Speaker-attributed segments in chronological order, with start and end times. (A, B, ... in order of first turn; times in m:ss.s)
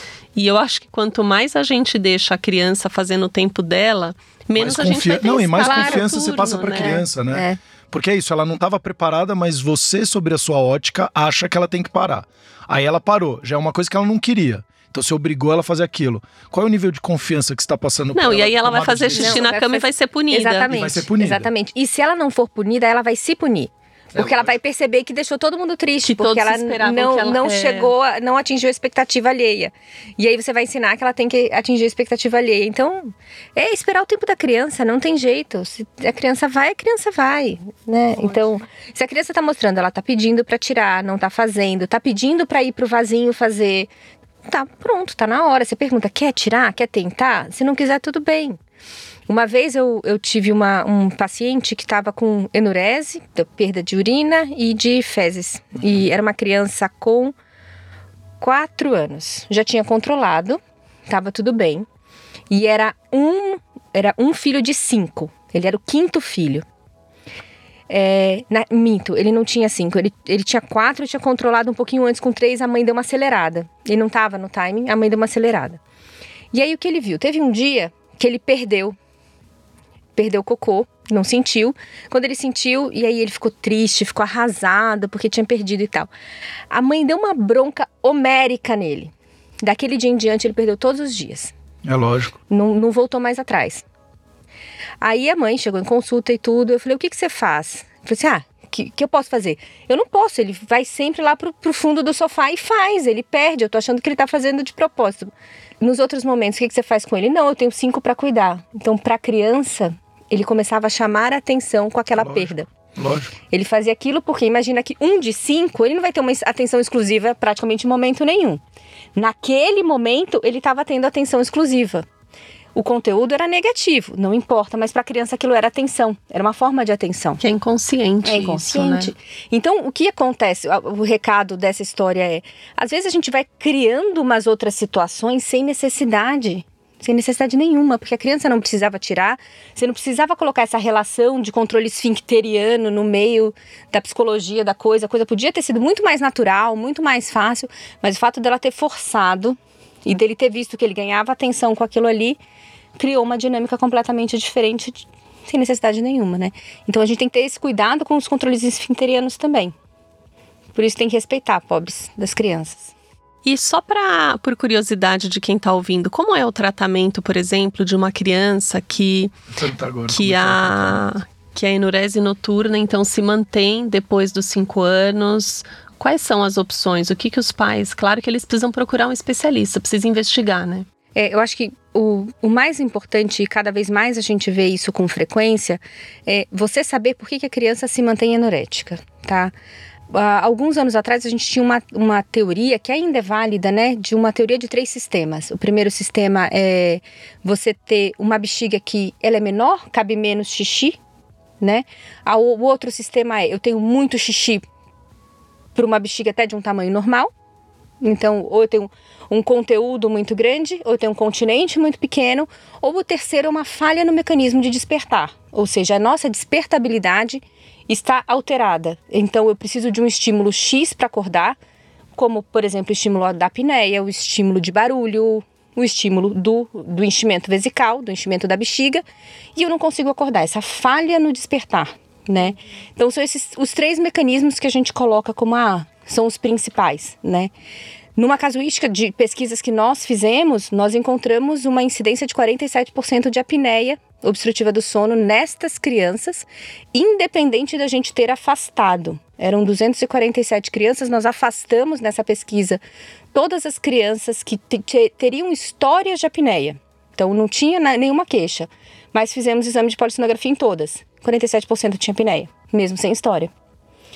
0:00.4-0:07.0 A
0:04.6-0:19.5 B
0:05.6-0:06.1 C
0:06.9-0:07.6 C
0:18.1-0:20.7 A
0:19.2-0:43.9 C
0:20.7-0:21.5 B
0:24.2-0:24.5 B
0:26.0-0:27.9 A
0:44.4-0:48.6 C
0:49.3-0:57.4 C
0:58.4-1:01.9 C
1:02.5-1:06.6 C
1:07.9-1:15.8 C
1:16.5-1:19.0 C
1:20.2-1:26.1 C
1:26.7-1:31.5 C
1:31.8-1:32.3 B
1:32.5-1:33.8 C
1:35.0-1:52.7 C
1:52.2-1:53.3 B
1:53.5-1:58.6 C
1:59.2-2:02.0 C
2:02.7-2:07.4 C
2:07.4-2:09.1 A
2:08.2-2:32.4 C
2:33.0-2:39.7 C
2:40.7-2:42.9 C
2:43.4-2:49.4 A
2:49.5-2:51.1 B
2:50.1-3:00.9 A
3:01.1-3:09.5 C
3:10.1-3:21.0 C
3:21.6-3:24.6 C
3:25.7-3:27.3 C
3:28.0-3:41.6 C
3:42.2-3:49.0 C
3:49.6-3:57.5 C
3:58.2-4:12.8 C
4:13.3-4:23.5 C